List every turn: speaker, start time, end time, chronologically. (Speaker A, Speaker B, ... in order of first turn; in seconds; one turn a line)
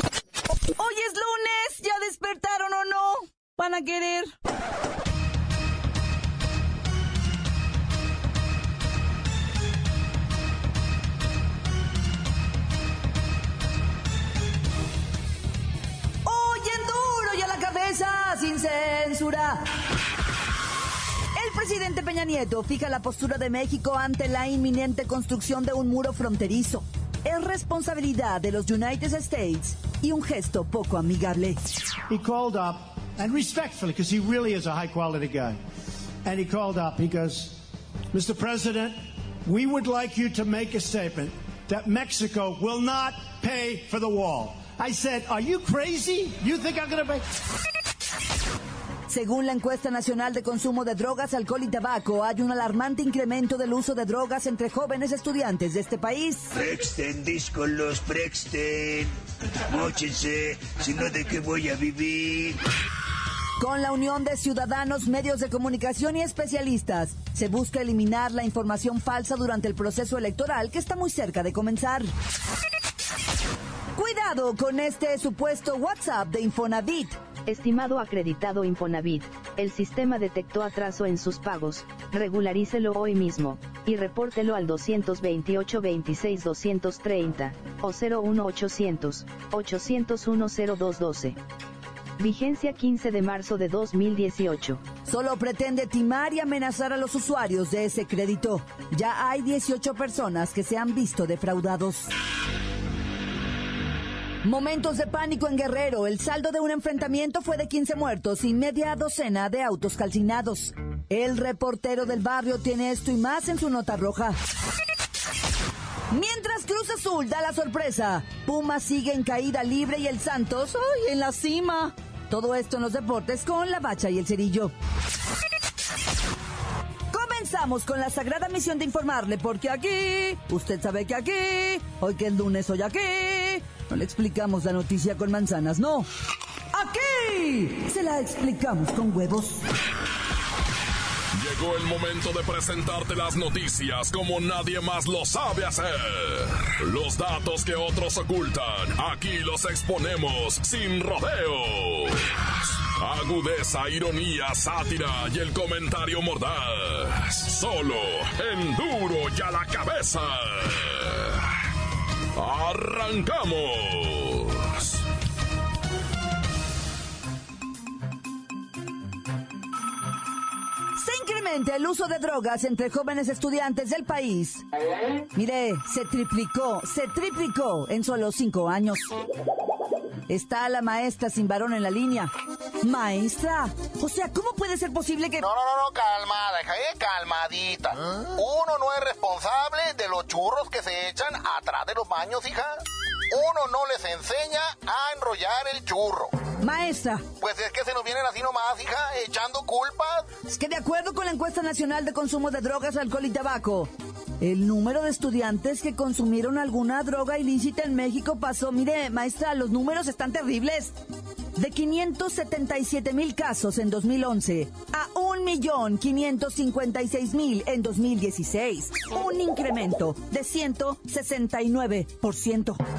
Speaker A: 0.8-4.3
Speaker A: 16.2-19.6
Speaker A: 21.3-31.6
Speaker B: 32.1-35.6
Speaker B: 36.2-37.6
Speaker B: 38.1-47.2
Speaker A: 49.1-56.5
Speaker C: 56.5-59.1
Speaker C: 59.7-62.6
Speaker A: 63.6-72.1
Speaker A: 74.0-77.2
Speaker D: 77.5-91.4
Speaker D: 92.2-94.8
Speaker A: 95.0-102.1
Speaker A: 104.4-114.4
Speaker A: 116.1-124.7
Speaker A: 127.1-136.1
Speaker A: 136.7-139.6
Speaker E: 141.3-161.5
Speaker E: 162.3-165.0
Speaker A: 170.9-174.6
Speaker A: 175.3-179.1
Speaker A: 180.3-185.4
Speaker F: 185.4-192.8
Speaker F: 193.3-196.3
Speaker A: 196.6-197.2
Speaker F: 197.4-200.3
Speaker A: 200.5-211.0
Speaker A: 211.6-222.8